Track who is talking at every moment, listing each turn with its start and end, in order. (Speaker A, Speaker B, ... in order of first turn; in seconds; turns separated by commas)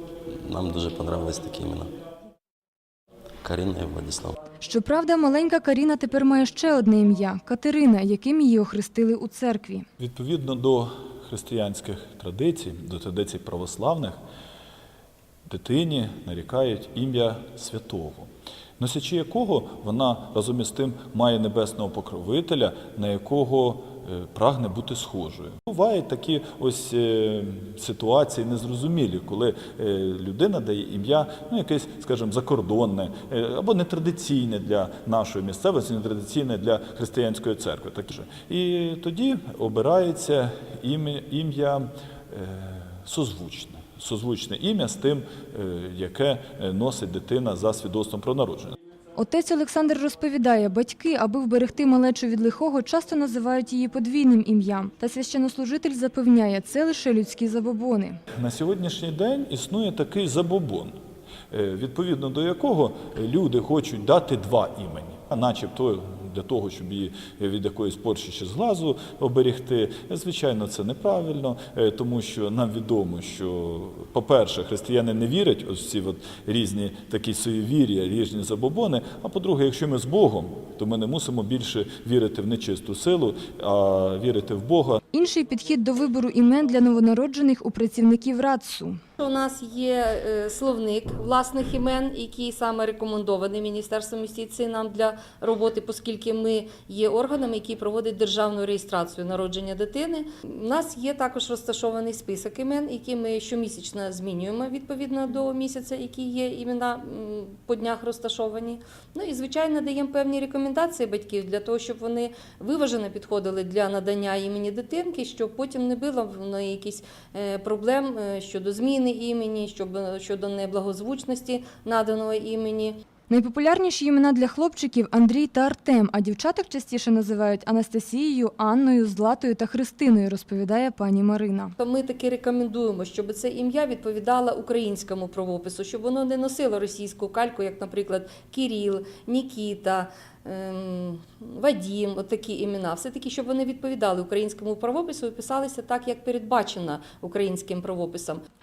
Speaker A: 0.4-1.9, Speaker A: 3.4-4.4, Speaker B: 4.6-9.9, Speaker C: 10.0-14.2, Speaker C: 15.5-48.8, Speaker B: 49.2-58.2, Speaker C: 58.4-61.0, Speaker C: 61.5-85.0, Speaker B: 85.1-89.0, Speaker D: 89.2-123.0, Speaker B: 123.3-131.7, Speaker D: 131.8-148.4